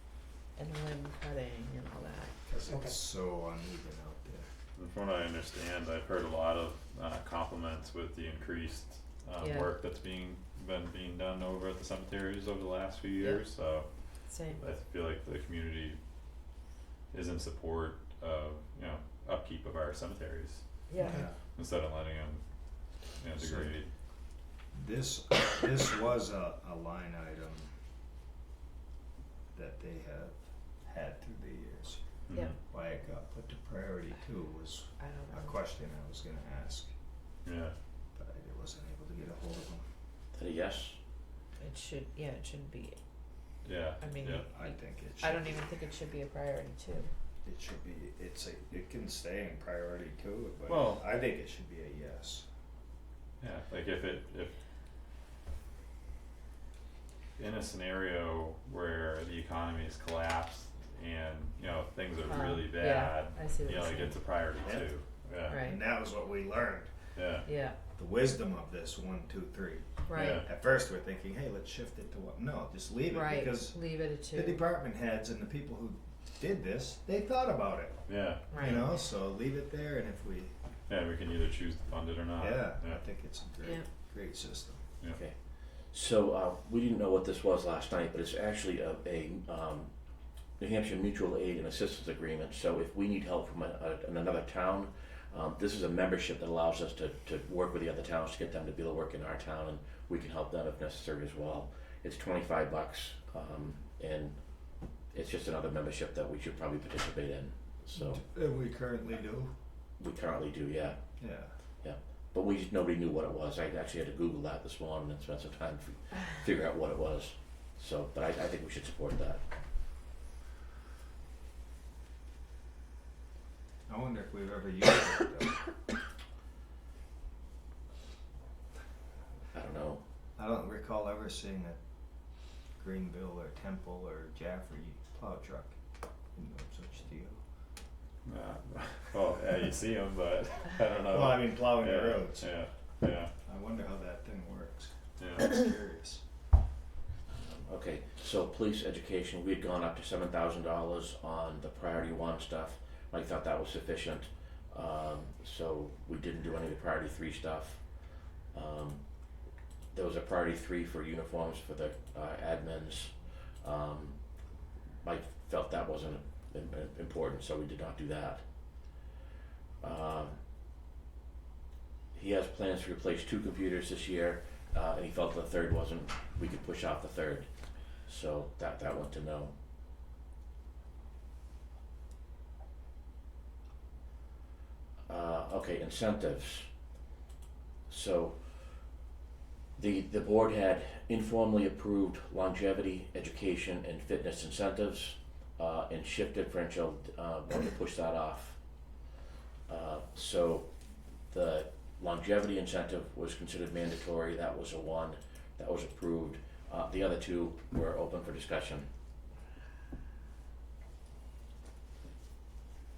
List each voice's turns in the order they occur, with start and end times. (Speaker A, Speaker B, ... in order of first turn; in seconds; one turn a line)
Speaker A: 0.6-2.4
Speaker B: 2.5-4.5
Speaker C: 4.8-16.0
Speaker A: 9.4-9.7
Speaker A: 14.2-14.6
Speaker C: 17.1-22.4
Speaker A: 20.9-21.2
Speaker B: 21.0-21.4
Speaker C: 23.1-23.9
Speaker B: 23.3-23.8
Speaker B: 24.7-27.7
Speaker B: 29.5-32.0
Speaker C: 32.3-32.5
Speaker B: 32.6-36.9
Speaker A: 35.0-35.5
Speaker C: 37.4-37.7
Speaker B: 38.1-39.9
Speaker D: 40.3-41.0
Speaker A: 41.6-43.0
Speaker C: 43.6-44.5
Speaker A: 44.0-47.1
Speaker B: 44.5-45.8
Speaker B: 47.4-52.5
Speaker C: 50.7-51.0
Speaker C: 53.4-54.5
Speaker C: 57.4-65.6
Speaker A: 62.2-64.1
Speaker B: 64.6-64.9
Speaker A: 65.5-65.8
Speaker B: 65.6-66.9
Speaker C: 67.1-67.5
Speaker A: 67.4-67.8
Speaker B: 68.0-80.5
Speaker A: 70.1-70.4
Speaker C: 70.2-70.5
Speaker A: 73.1-74.6
Speaker C: 78.1-78.8
Speaker A: 78.5-78.9
Speaker C: 80.9-83.0
Speaker B: 82.4-84.8
Speaker D: 85.1-89.9
Speaker D: 90.6-108.2
Speaker B: 108.0-109.5
Speaker D: 110.0-111.0
Speaker B: 111.2-111.5
Speaker D: 111.8-119.4
Speaker B: 123.9-125.6
Speaker D: 129.5-130.0
Speaker B: 130.4-131.8
Speaker B: 132.8-135.8
Speaker B: 136.3-137.4
Speaker C: 138.2-143.3
Speaker B: 141.1-142.5
Speaker B: 143.4-146.2
Speaker C: 145.2-145.6
Speaker D: 147.5-157.9
Speaker D: 158.5-159.0
Speaker D: 159.9-164.2
Speaker D: 165.0-168.4
Speaker D: 169.8-170.4
Speaker D: 172.1-177.5
Speaker D: 178.0-179.5
Speaker D: 185.1-186.7
Speaker D: 187.9-188.8
Speaker D: 189.8-198.6
Speaker D: 199.7-200.7
Speaker D: 201.3-208.9